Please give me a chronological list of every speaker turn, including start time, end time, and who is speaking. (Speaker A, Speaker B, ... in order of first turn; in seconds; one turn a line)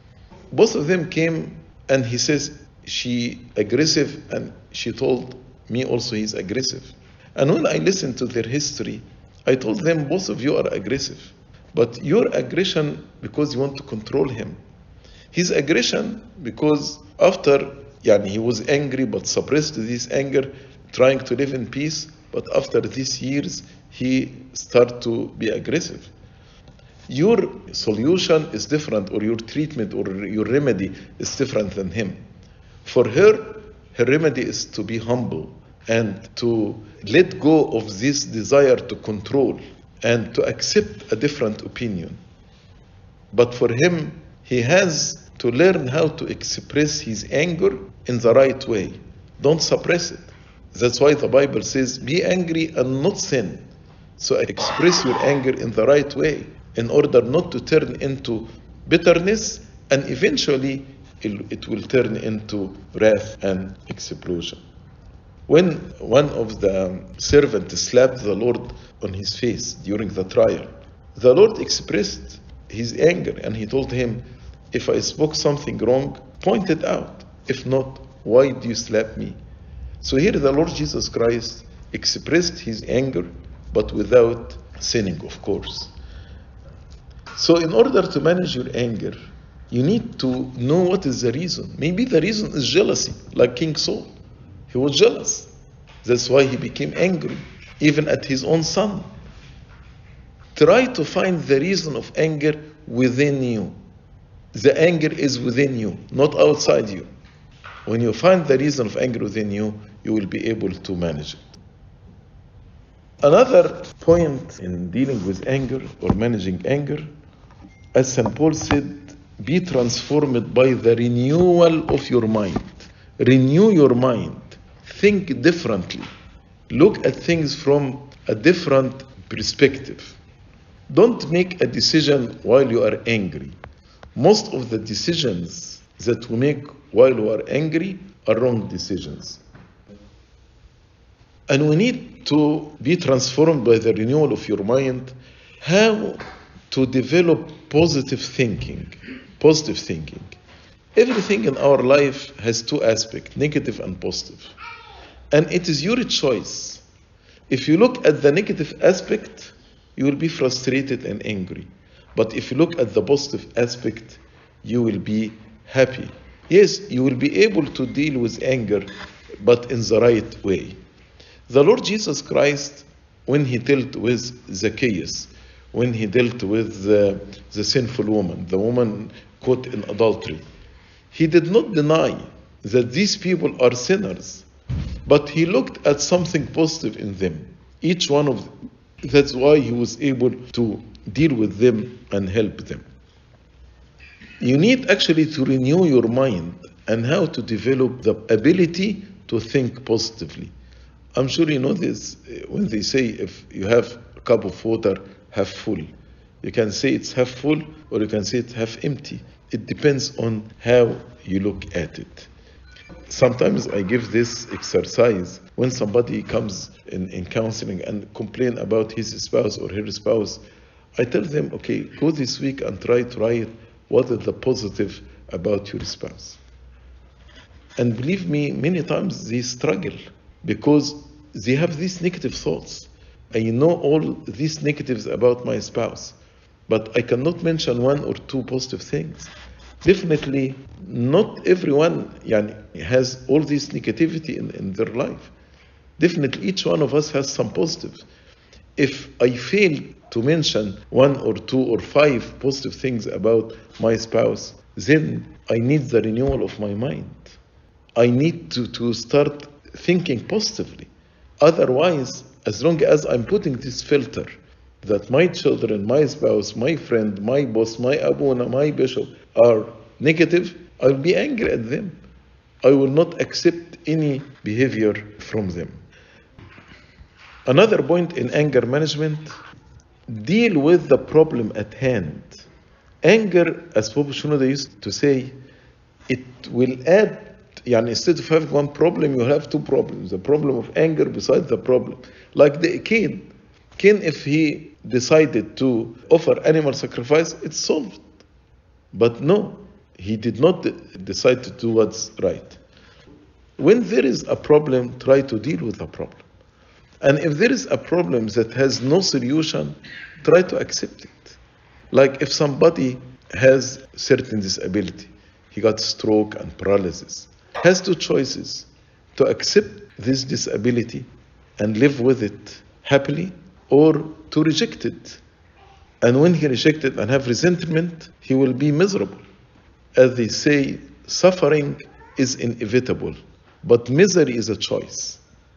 Speaker A: 0.5-14.6
Speaker A: 15.3-26.1
Speaker A: 27.1-32.2
Speaker A: 32.8-42.2
Speaker A: 43.3-53.6
Speaker A: 54.2-64.6
Speaker A: 65.5-79.4
Speaker A: 80.0-85.9
Speaker A: 87.3-89.2
Speaker A: 89.7-94.1
Speaker A: 94.7-95.5
Speaker A: 96.0-99.1
Speaker A: 100.5-103.8
Speaker A: 104.5-107.1
Speaker A: 107.9-111.5
Speaker A: 113.2-117.1
Speaker A: 117.9-126.1
Speaker A: 126.7-130.2
Speaker A: 130.9-133.6
Speaker A: 134.2-139.4
Speaker A: 141.5-150.3
Speaker A: 151.0-154.5
Speaker A: 155.3-156.8
Speaker A: 157.5-170.8
Speaker A: 171.5-180.4
Speaker A: 181.1-184.5
Speaker A: 185.1-188.5
Speaker A: 189.0-192.9
Speaker A: 194.4-200.5
Speaker A: 201.1-212.3
Speaker A: 213.1-220.4
Speaker A: 221.0-226.4
Speaker A: 227.8-236.2
Speaker A: 236.7-239.3
Speaker A: 239.8-245.3
Speaker A: 246.0-248.0
Speaker A: 248.8-257.4
Speaker A: 257.9-260.9
Speaker A: 261.4-272.0
Speaker A: 272.6-275.8
Speaker A: 277.5-279.3
Speaker A: 280.1-282.4
Speaker A: 283.0-285.4
Speaker A: 286.1-298.1
Speaker A: 298.9-302.6
Speaker A: 303.6-306.2
Speaker A: 307.0-311.4
Speaker A: 311.9-325.2
Speaker A: 326.0-329.2
Speaker A: 329.9-335.2